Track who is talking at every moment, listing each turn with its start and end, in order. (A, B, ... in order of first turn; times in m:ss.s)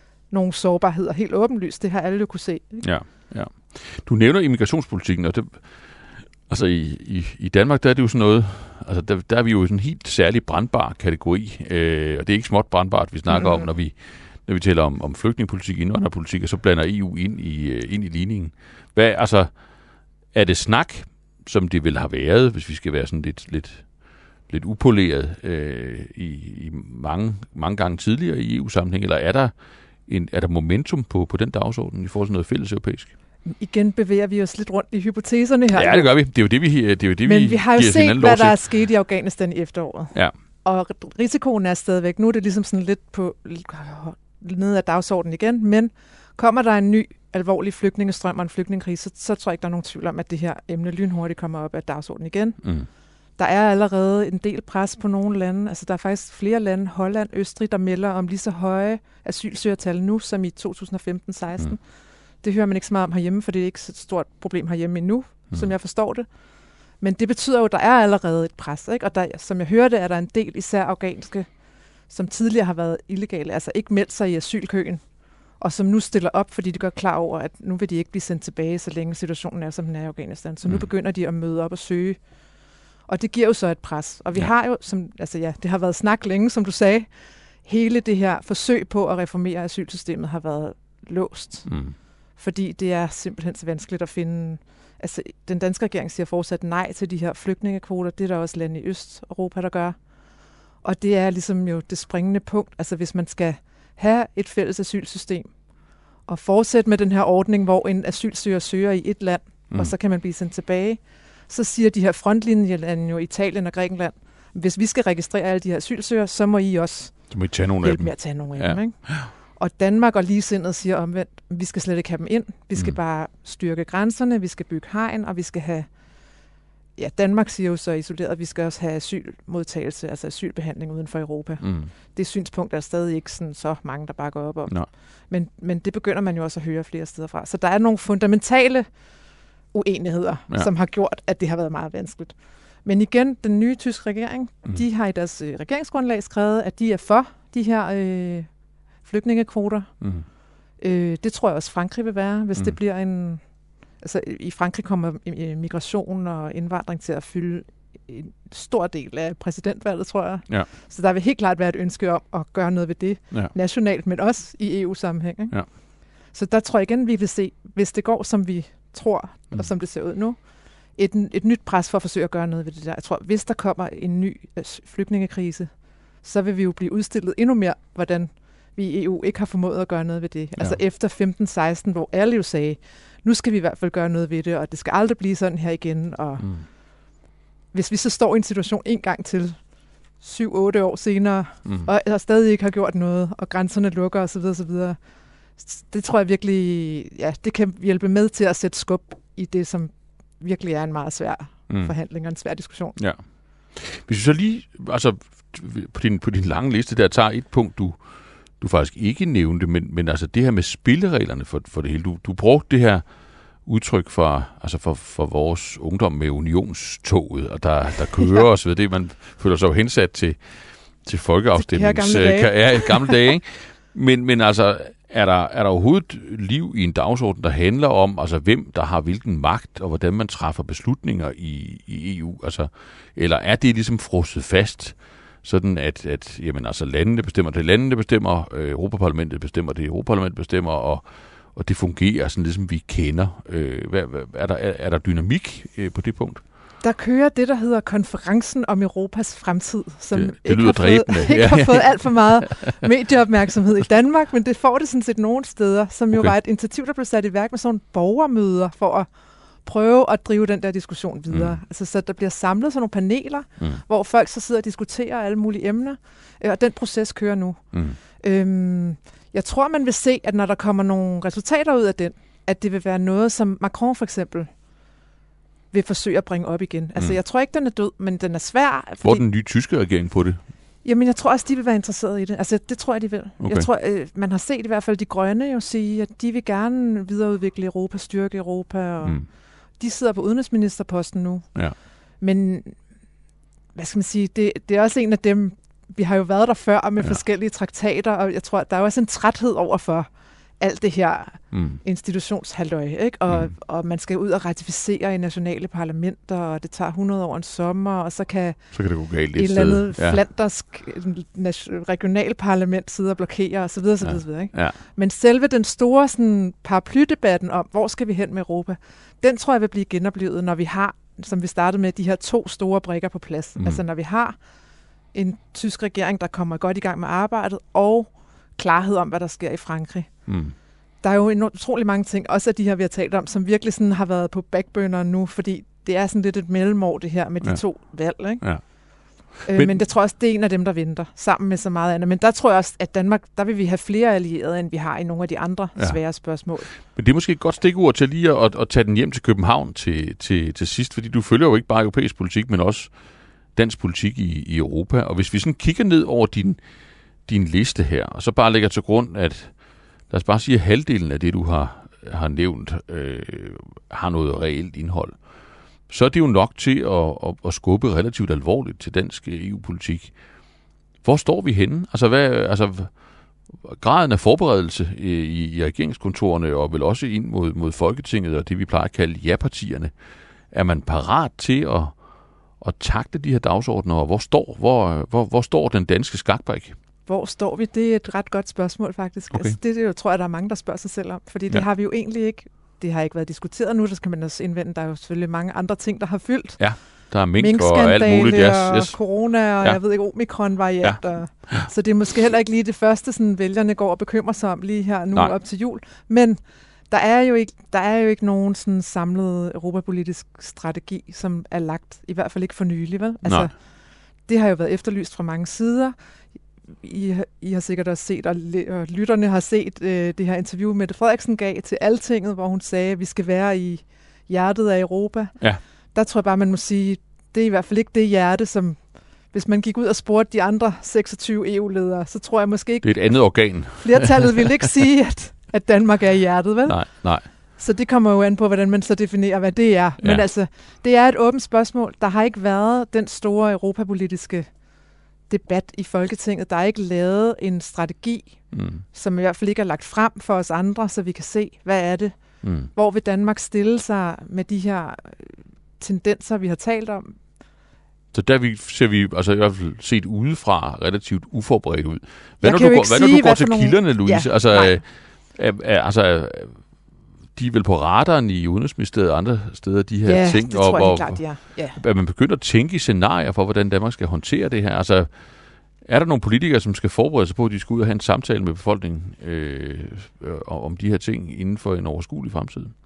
0:00.3-0:02.9 A
0:02.8-0:19.8 B
0:13.3-0:13.7 A
0:20.3-0:29.5 B
0:30.1-0:33.1 B
0:33.5-0:36.1 A
0:35.7-0:38.6 B
0:37.2-0:52.7 A
0:53.4-1:01.8 A
1:02.4-1:06.3 A
1:07.0-1:11.5 A
1:12.1-1:15.0 A
1:15.6-1:22.2 A
1:23.1-1:27.1 A
1:27.6-1:31.8 A
1:31.7-1:32.0 B
1:32.4-1:40.0 A
1:40.8-1:45.5 A
1:46.3-2:05.9 A
1:57.3-1:59.3 B
2:07.0-2:18.9 A
2:11.6-2:11.9 B
2:19.7-2:22.3 A
2:22.8-2:28.5 A
2:29.0-2:29.9 A
2:30.8-2:33.4 A
2:34.0-2:45.7 A
2:46.3-2:55.7 A
2:56.2-3:06.6 A
3:07.7-3:09.6 A
3:10.2-3:15.0 A
3:15.6-3:23.0 A
3:21.7-3:21.9 B
3:23.7-3:33.1 B
3:33.6-4:06.4 B
3:41.6-3:43.2 A
4:06.8-4:19.1 A
4:10.1-4:12.7 B
4:19.6-4:27.6 A
4:21.3-4:21.6 B
4:27.7-4:28.0 B
4:28.2-4:34.5 A
4:35.7-4:39.2 A
4:39.0-4:40.4 B
4:40.8-4:51.6 A
4:43.4-4:43.7 B
4:52.2-4:52.8 A
4:53.8-5:08.8 A
5:01.5-5:01.8 B
5:08.7-5:10.2 B
5:09.4-5:24.4 A
5:14.0-5:14.8 B
5:25.1-5:30.3 A
5:30.3-5:30.5 B
5:31.0-5:38.7 A
5:39.4-5:39.8 B
5:39.4-5:46.7 A
5:46.8-5:53.0 B
5:53.5-5:56.6 B
5:57.3-6:05.3 B
6:05.9-6:10.2 B
6:11.0-6:13.0 B
6:13.6-6:19.9 B
6:20.5-6:22.0 B
6:22.6-6:26.8 B
6:27.1-6:36.8 A
6:29.3-6:29.6 B
6:36.6-6:39.8 B
6:37.4-6:46.4 A
6:40.8-6:41.7 B
6:46.9-6:53.5 A
6:54.3-6:56.0 A
6:56.8-7:24.5 A
7:12.8-7:14.3 B
7:16.7-7:17.3 B
7:20.0-7:20.2 B
7:25.3-7:32.2 A
7:28.5-7:28.8 B
7:32.4-7:32.7 B
7:32.7-7:37.2 A
7:38.1-7:46.7 B
7:42.4-7:44.8 A
7:47.4-8:02.7 B
7:50.0-7:51.8 A